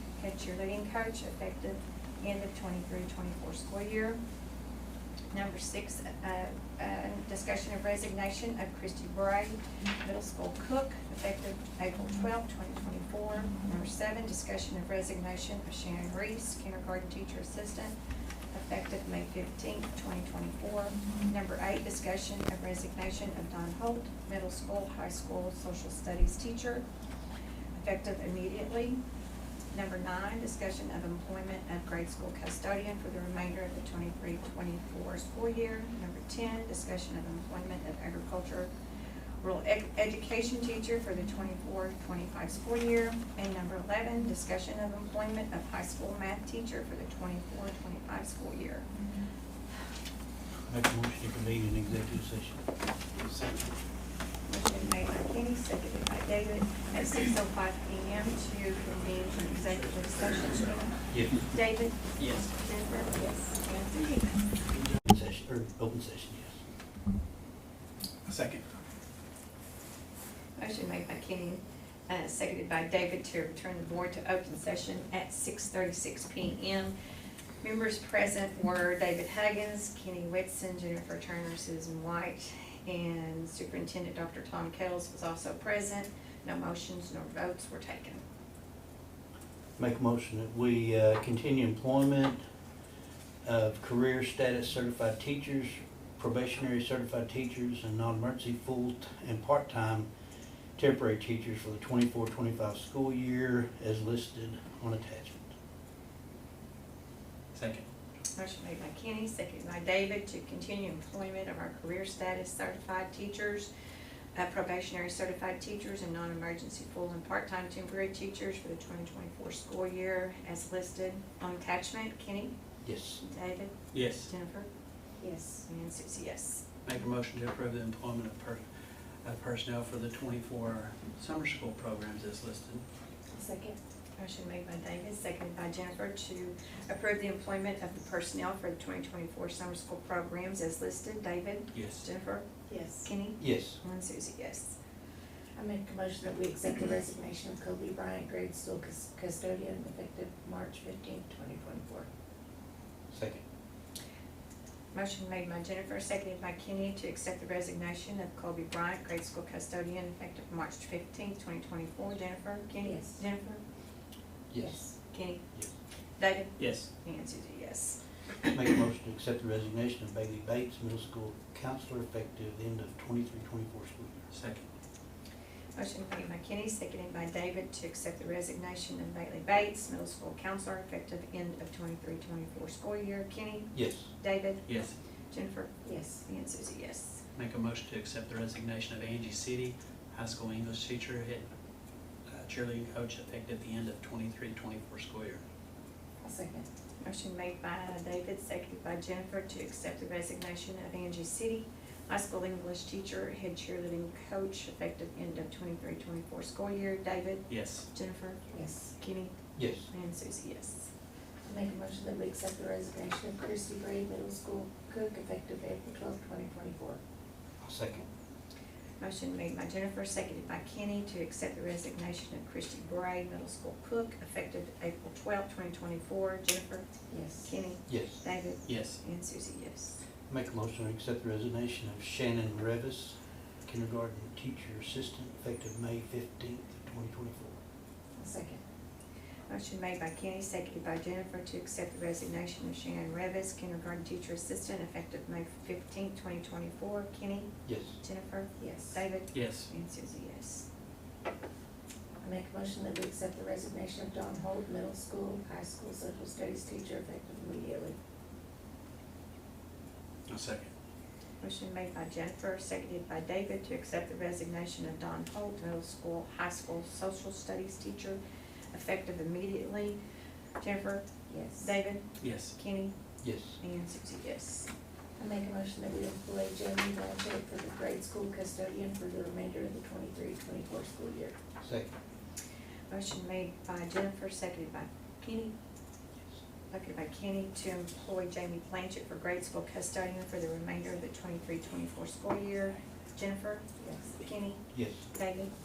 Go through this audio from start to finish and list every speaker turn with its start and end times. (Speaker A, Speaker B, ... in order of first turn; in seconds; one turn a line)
Speaker A: 0.2-4.2
Speaker A: 5.3-17.9
Speaker A: 18.5-26.8
Speaker A: 27.7-29.0
Speaker A: 29.7-38.7
Speaker A: 39.4-48.9
Speaker B: 50.7-52.6
Speaker C: 53.1-53.7
Speaker A: 54.5-64.5
Speaker B: 61.1-61.4
Speaker C: 62.2-62.5
Speaker B: 65.0-66.6
Speaker C: 68.2-68.6
Speaker A: 70.6-77.0
Speaker A: 77.6-88.2
Speaker B: 89.8-92.4
Speaker B: 93.4-100.1
Speaker B: 100.8-105.5
Speaker C: 107.5-107.8
Speaker A: 108.3-113.7
Speaker A: 114.3-122.5
Speaker B: 122.8-123.2
Speaker A: 123.2-124.7
Speaker C: 123.9-124.3
Speaker D: 125.2-125.6
Speaker A: 125.7-126.6
Speaker C: 126.8-128.6
Speaker C: 129.2-132.8
Speaker D: 133.3-133.8
Speaker A: 134.2-142.5
Speaker C: 141.7-142.0
Speaker D: 142.7-143.1
Speaker A: 143.0-144.7
Speaker B: 143.4-143.8
Speaker D: 145.6-152.1
Speaker B: 153.1-153.4
Speaker A: 154.9-163.6
Speaker D: 162.8-163.2
Speaker B: 164.5-164.8
Speaker D: 164.6-164.9
Speaker A: 165.1-165.6
Speaker A: 166.2-168.0
Speaker C: 166.6-166.9
Speaker B: 168.5-174.2
Speaker C: 174.3-174.7
Speaker A: 175.8-184.7
Speaker B: 183.7-184.1
Speaker C: 184.7-184.9
Speaker A: 185.3-187.2
Speaker D: 185.8-186.2
Speaker C: 187.3-191.5
Speaker C: 192.3-195.4
Speaker D: 196.2-196.7
Speaker A: 197.0-209.3
Speaker C: 207.5-207.9
Speaker D: 208.5-208.9
Speaker B: 209.5-209.9
Speaker A: 209.9-210.9
Speaker D: 211.4-217.0
Speaker B: 217.6-218.1
Speaker A: 219.0-226.9
Speaker D: 227.1-227.5
Speaker A: 227.4-230.0
Speaker B: 227.9-228.2
Speaker C: 228.7-229.0
Speaker B: 230.3-237.6
Speaker D: 238.2-238.6
Speaker A: 239.5-250.7
Speaker B: 247.7-248.0
Speaker D: 248.6-249.0
Speaker C: 249.3-249.7
Speaker D: 252.2-257.9
Speaker C: 260.3-260.7
Speaker A: 261.4-268.2
Speaker A: 268.7-270.0
Speaker A: 270.6-271.1
Speaker D: 271.3-271.7
Speaker A: 271.6-272.9
Speaker C: 272.2-272.5
Speaker B: 273.2-273.6
Speaker A: 273.6-274.7
Speaker D: 275.2-281.4
Speaker B: 281.6-281.9
Speaker A: 282.9-285.5
Speaker A: 286.7-293.6
Speaker D: 293.8-294.1
Speaker A: 294.2-295.5
Speaker B: 294.7-295.0